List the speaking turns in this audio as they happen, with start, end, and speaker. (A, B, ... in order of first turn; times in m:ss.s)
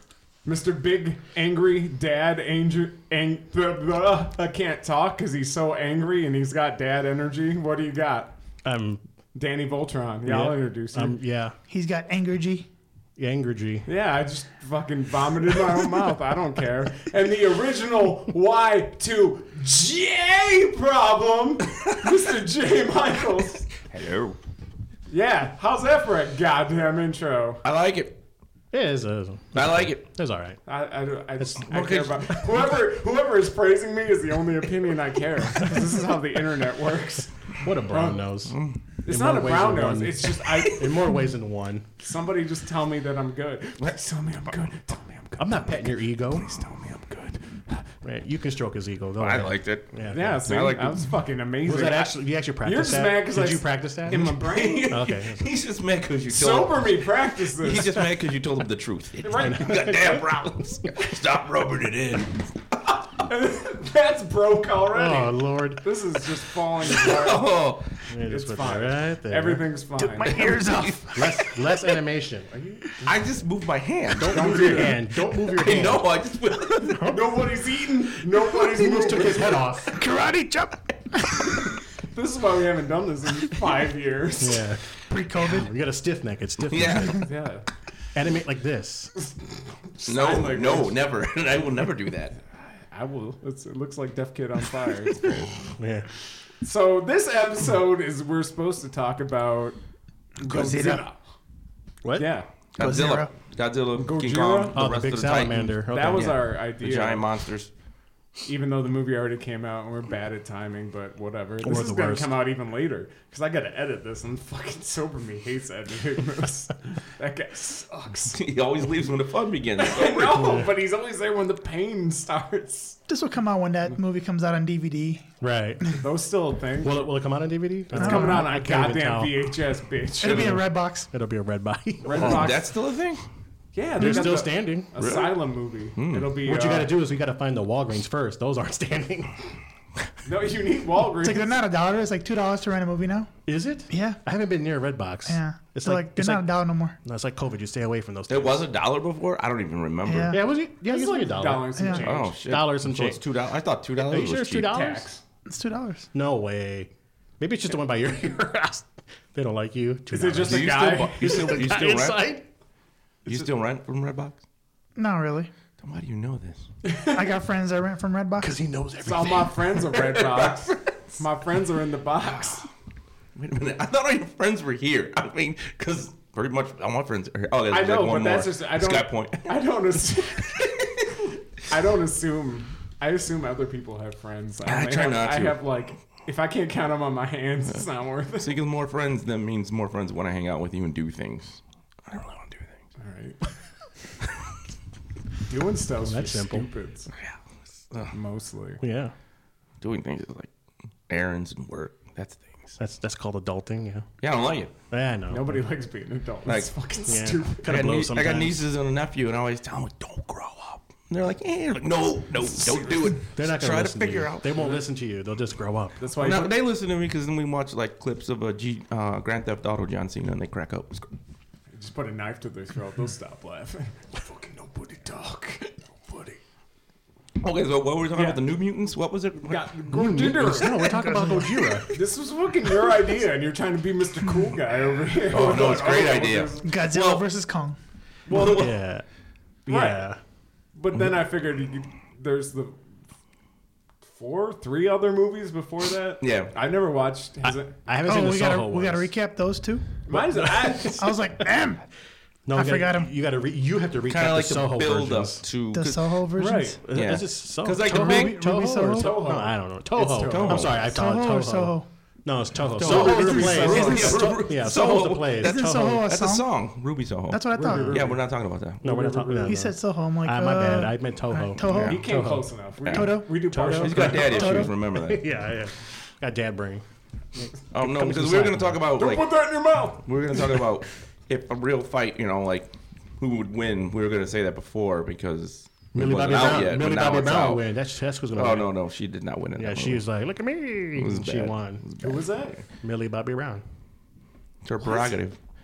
0:00.4-0:08.3 A
0:08.6-0:09.0 B
0:09.3-0:11.2 A
0:10.2-0:11.6 B
0:11.7-0:12.7 C
0:13.2-0:13.8 B
0:13.8-0:23.7 A
0:23.8-0:24.4 D
0:25.1-0:27.6 A
0:27.6-0:28.1 D
0:28.7-0:30.6 B
0:29.5-0:30.0 D
0:30.6-0:37.3 A
0:31.6-0:32.7 D
0:37.6-0:41.9 B
0:37.9-0:38.2 A
0:38.5-0:38.8 D
0:39.0-0:41.0 A
0:40.5-0:41.0 D
0:42.0-0:45.8 A
0:45.4-0:46.5 B
0:46.3-0:47.8 A
0:48.0-0:50.4 B
0:49.2-0:51.1 D
0:50.1-0:55.0 A
0:51.6-0:55.5 B
0:54.1-1:02.5 D
0:56.3-0:58.0 A
0:59.2-1:00.2 A
0:59.4-1:00.0 B
1:03.2-1:07.5 A
1:04.9-1:05.8 B
1:06.8-1:07.9 D
1:08.1-1:09.6 B
1:08.2-1:10.5 A
1:10.2-1:11.6 C
1:10.2-1:11.4 D
1:11.1-1:12.8 B
1:13.0-1:17.1 D
1:14.1-1:16.0 B
1:14.3-1:15.0 A
1:16.9-1:17.3 B
1:17.0-1:19.6 A
1:18.5-1:19.9 B
1:19.9-1:21.7 C
1:22.0-1:24.7 A
1:24.4-1:24.8 B
1:25.1-1:25.7 C
1:25.4-1:27.3 B
1:26.7-1:27.3 D
1:27.2-1:27.6 A
1:28.1-1:29.1 B
1:29.9-1:31.0 A
1:30.0-1:32.4 D
1:32.9-1:35.5 A
1:35.8-1:36.1 B
1:36.6-1:39.8 A
1:40.4-1:41.2 A
1:40.7-1:41.0 C
1:42.0-1:42.3 B
1:42.1-1:42.5 A
1:42.7-1:47.7 D
1:42.8-1:43.3 C
1:43.9-1:44.8 A
1:44.7-1:46.4 B
1:45.9-1:47.2 A
1:48.4-1:58.4 A
1:51.6-1:52.3 B
1:58.3-2:00.4 D
1:59.8-2:03.0 A
2:00.4-2:00.7 B
2:03.1-2:05.3 C
2:05.4-2:05.8 B
2:06.0-2:07.1 A
2:06.8-2:09.3 B
2:07.9-2:10.6 A
2:08.0-2:08.5 C
2:10.2-2:11.1 C
2:10.2-2:12.5 B
2:12.0-2:12.7 A
2:12.1-2:13.2 D
2:13.7-2:16.9 A
2:14.0-2:14.9 B
2:15.0-2:15.3 D
2:16.0-2:16.3 D
2:16.4-2:19.4 B
2:20.2-2:21.6 A
2:21.2-2:23.3 C
2:23.5-2:26.5 B
2:23.9-2:24.2 C
2:25.3-2:27.0 C
2:27.0-2:28.6 B
2:28.3-2:30.4 D
2:30.0-2:30.4 C
2:30.3-2:33.2 B
2:30.8-2:32.4 A
2:31.8-2:32.0 C
2:32.0-2:34.7 D
2:34.0-2:35.1 B
2:34.6-2:35.2 A
2:35.4-2:36.1 C
2:36.1-2:42.4 B
2:40.1-2:41.6 A
2:40.4-2:42.2 D
2:43.2-2:44.4 D
2:45.0-2:45.5 C
2:45.8-2:46.6 D
2:46.8-2:47.3 A
2:47.0-2:48.5 C
2:48.4-2:49.8 B
2:49.0-2:52.7 A
2:50.0-2:51.0 D
2:53.4-2:59.5 D
2:57.7-3:00.7 A
3:00.4-3:01.2 D
3:01.7-3:08.6 A
3:04.6-3:05.6 D
3:08.4-3:12.8 D
3:13.0-3:13.5 A
3:15.5-3:17.1 A
3:16.0-3:16.6 B
3:18.1-3:18.8 A
3:18.8-3:19.1 B
3:19.8-3:20.5 D
3:21.1-3:22.8 D
3:22.8-3:24.1 B
3:24.2-3:24.7 D
3:24.9-3:25.6 B
3:25.3-3:27.7 A
3:26.4-3:26.7 D
3:27.1-3:28.6 B
3:27.6-3:34.5 D
3:33.3-3:36.0 B
3:36.0-3:36.5 A
3:36.2-3:41.1 D
3:41.7-3:46.4 A
3:47.4-3:49.7 D
3:48.1-3:48.4 A
3:49.4-3:51.0 A
3:49.9-3:52.0 B
3:50.7-3:51.9 C
3:51.9-3:56.7 A
3:55.3-3:57.2 D
3:56.6-3:57.8 C
3:58.3-3:58.8 D
3:58.3-3:59.0 B
3:58.3-3:58.6 A
3:59.6-4:00.2 B
3:59.7-4:00.0 A
4:00.7-4:02.8 A
4:04.1-4:07.8 A
4:06.2-4:06.5 D
4:07.4-4:09.1 B
4:08.0-4:09.9 C
4:10.0-4:11.0 A
4:10.1-4:11.1 B
4:10.9-4:11.8 C
4:12.5-4:15.4 B
4:12.5-4:13.1 C
4:14.1-4:16.1 D
4:15.7-4:16.8 C
4:16.4-4:16.8 A
4:16.8-4:26.0 B
4:16.9-4:18.4 D
4:17.8-4:19.2 C
4:18.9-4:20.8 A
4:20.3-4:20.8 D
4:20.8-4:21.9 C
4:22.8-4:24.4 A
4:22.8-4:29.3 D
4:22.9-4:24.2 C
4:25.4-4:26.4 C
4:27.3-4:28.0 C
4:27.5-4:28.2 A
4:28.8-4:32.5 B
4:28.8-4:29.5 A
4:29.4-4:32.1 C
4:31.6-4:32.0 D
4:31.8-4:34.6 A
4:32.8-4:33.2 D
4:32.9-4:34.7 C
4:33.5-4:36.8 B
4:33.8-4:35.2 D
4:37.4-4:38.8 B
4:37.7-4:47.6 D
4:39.0-4:40.6 A
4:45.9-4:48.7 B
4:48.3-4:50.0 D
4:49.6-4:51.8 B
4:51.0-4:52.2 D
4:52.0-4:52.6 A
4:52.8-4:53.6 B
4:54.6-4:55.4 D